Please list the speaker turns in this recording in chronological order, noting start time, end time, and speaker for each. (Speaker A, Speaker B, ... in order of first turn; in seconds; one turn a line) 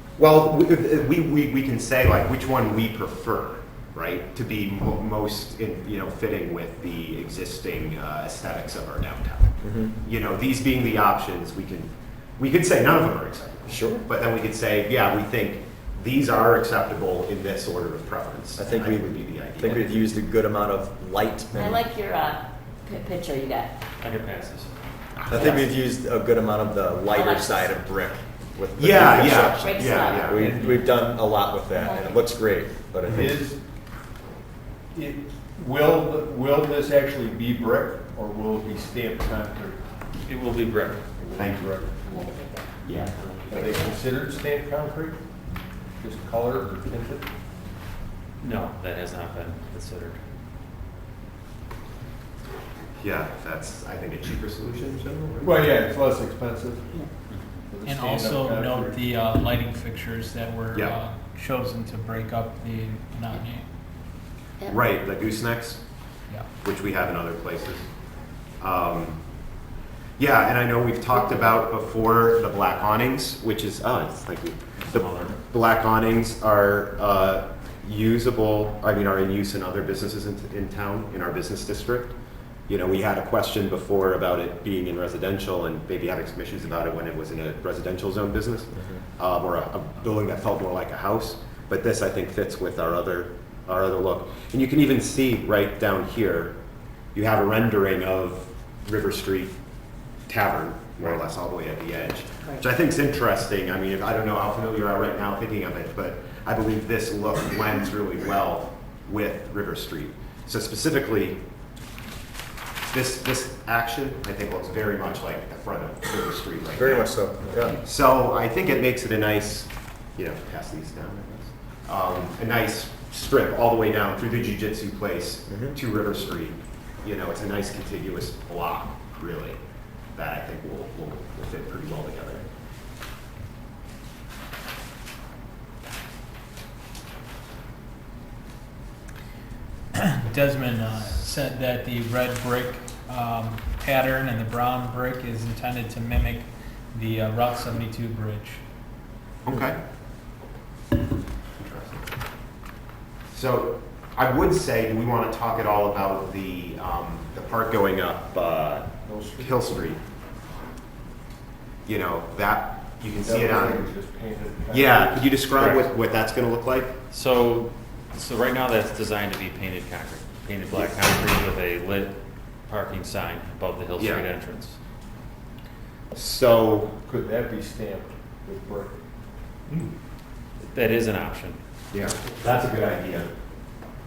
Speaker A: 0.2-20.1
Speaker B: 9.6-9.9
Speaker B: 13.7-14.0
Speaker B: 18.6-21.8
Speaker C: 21.5-23.7
Speaker D: 24.0-24.8
Speaker A: 25.2-25.6
Speaker B: 25.3-29.7
Speaker C: 27.1-27.8
Speaker A: 28.8-30.4
Speaker E: 29.0-29.5
Speaker C: 29.5-30.4
Speaker B: 30.3-33.4
Speaker E: 30.3-31.0
Speaker C: 31.7-32.2
Speaker E: 33.1-33.6
Speaker E: 34.9-39.8
Speaker D: 40.2-41.0
Speaker E: 41.1-42.5
Speaker A: 41.4-41.8
Speaker C: 42.1-42.7
Speaker A: 42.8-43.8
Speaker E: 43.1-45.2
Speaker C: 43.6-43.9
Speaker E: 46.0-47.2
Speaker D: 48.4-50.2
Speaker A: 53.0-55.7
Speaker E: 55.4-57.0
Speaker D: 57.3-57.6
Speaker E: 57.7-59.0
Speaker F: 57.8-63.6
Speaker A: 60.7-61.0
Speaker A: 64.7-65.8
Speaker A: 66.6-67.9
Speaker A: 68.6-69.2
Speaker A: 70.2-82.1
Speaker D: 74.8-75.4
Speaker A: 82.7-96.5
Speaker A: 97.1-99.5
Speaker A: 100.3-111.4
Speaker A: 112.9-129.6
Speaker B: 116.7-117.8
Speaker B: 125.5-125.8
Speaker A: 130.2-132.4
Speaker F: 140.2-148.6
Speaker A: 149.4-149.8
Speaker A: 151.6-152.0
Speaker A: 153.3-160.0
Speaker E: 159.0-159.8
Speaker A: 161.8-163.8
Speaker E: 163.2-165.4
Speaker A: 164.7-166.9
Speaker D: 165.5-165.8
Speaker D: 167.1-174.8
Speaker A: 174.0-174.2
Speaker A: 176.1-177.0
Speaker E: 177.0-179.0
Speaker D: 180.6-181.6
Speaker A: 181.9-183.3